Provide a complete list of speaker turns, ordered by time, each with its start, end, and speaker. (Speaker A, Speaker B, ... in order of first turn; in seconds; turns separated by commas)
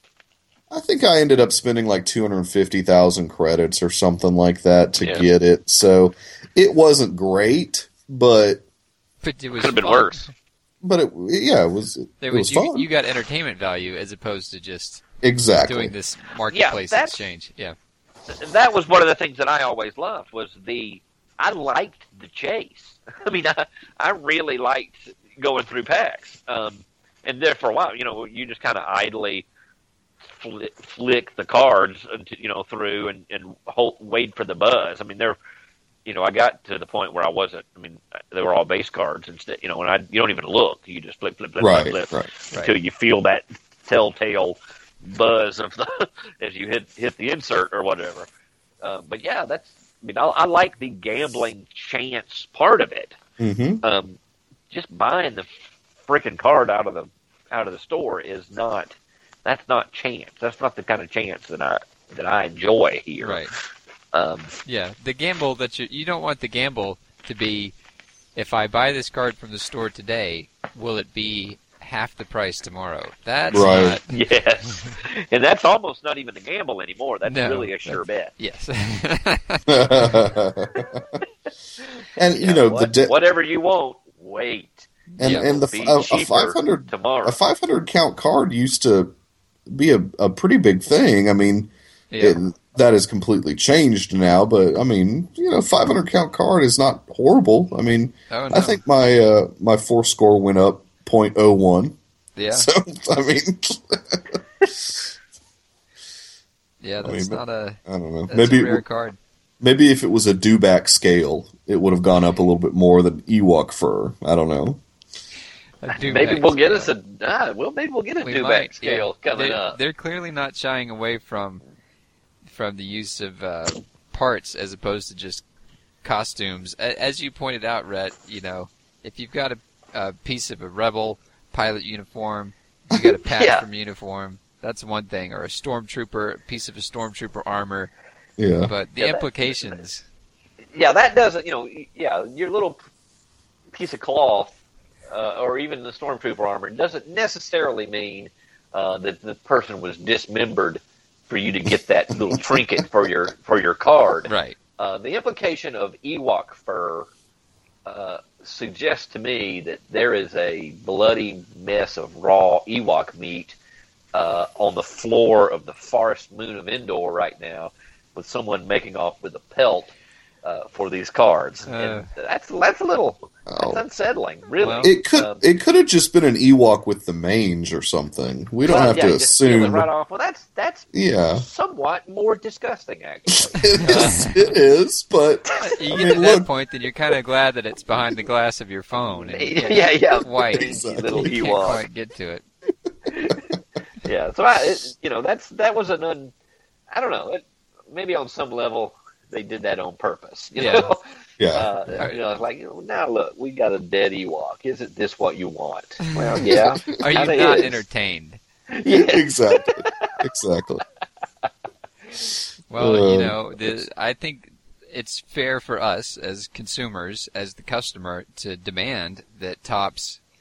Speaker A: 0.7-8.6, Speaker B: 5.0-5.3, Speaker C: 9.2-10.3, Speaker B: 9.5-10.2, Speaker A: 10.8-12.9, Speaker C: 12.2-15.0, Speaker A: 15.2-15.9, Speaker C: 15.7-17.8, Speaker B: 16.5-17.2, Speaker B: 18.3-29.5, Speaker B: 30.2-35.4, Speaker B: 36.0-48.3, Speaker A: 41.6-42.3, Speaker B: 48.8-53.2, Speaker A: 53.4-53.8, Speaker B: 53.8-54.2, Speaker B: 54.7-55.5, Speaker B: 56.1-63.4, Speaker C: 63.2-63.5, Speaker B: 64.1-64.5, Speaker C: 64.7-67.7, Speaker C: 68.4-74.1, Speaker A: 73.5-74.0, Speaker B: 74.1-78.3, Speaker C: 77.2-80.3, Speaker A: 79.7-81.2, Speaker A: 82.2-83.1, Speaker B: 82.4-87.4, Speaker C: 85.2-85.5, Speaker A: 85.2-89.1, Speaker A: 89.7-102.0, Speaker C: 92.1-92.4, Speaker C: 98.3-98.8, Speaker C: 102.4-102.7, Speaker A: 102.5-105.1, Speaker C: 106.8-109.2, Speaker A: 107.0-108.8, Speaker A: 109.6-114.8, Speaker C: 115.8-116.9, Speaker B: 115.9-119.8, Speaker C: 118.2-121.6, Speaker C: 122.5-125.4, Speaker C: 126.0-137.9, Speaker B: 133.3-133.7, Speaker A: 138.4-138.7, Speaker C: 138.7-140.1, Speaker B: 139.0-139.8, Speaker B: 140.7-142.8, Speaker B: 143.7-144.6, Speaker B: 145.1-157.1, Speaker A: 152.3-152.8, Speaker C: 154.3-154.6, Speaker B: 157.9-163.6, Speaker B: 164.1-169.9, Speaker B: 170.4-175.4, Speaker C: 171.7-172.1, Speaker A: 173.5-173.8, Speaker C: 174.6-174.9, Speaker A: 174.8-179.9, Speaker B: 178.6-184.1, Speaker A: 180.9-181.4, Speaker A: 183.3-186.5, Speaker C: 183.7-184.5, Speaker C: 185.6-192.4, Speaker B: 189.1-191.8, Speaker A: 190.5-191.3, Speaker B: 193.1-193.5, Speaker B: 194.0-196.3, Speaker B: 196.9-201.0, Speaker C: 200.6-200.9, Speaker A: 201.4-201.7, Speaker B: 201.5-207.8, Speaker C: 206.1-208.4, Speaker A: 206.4-207.0, Speaker B: 208.7-210.2, Speaker A: 208.9-210.8, Speaker C: 212.7-220.2, Speaker A: 212.8-213.8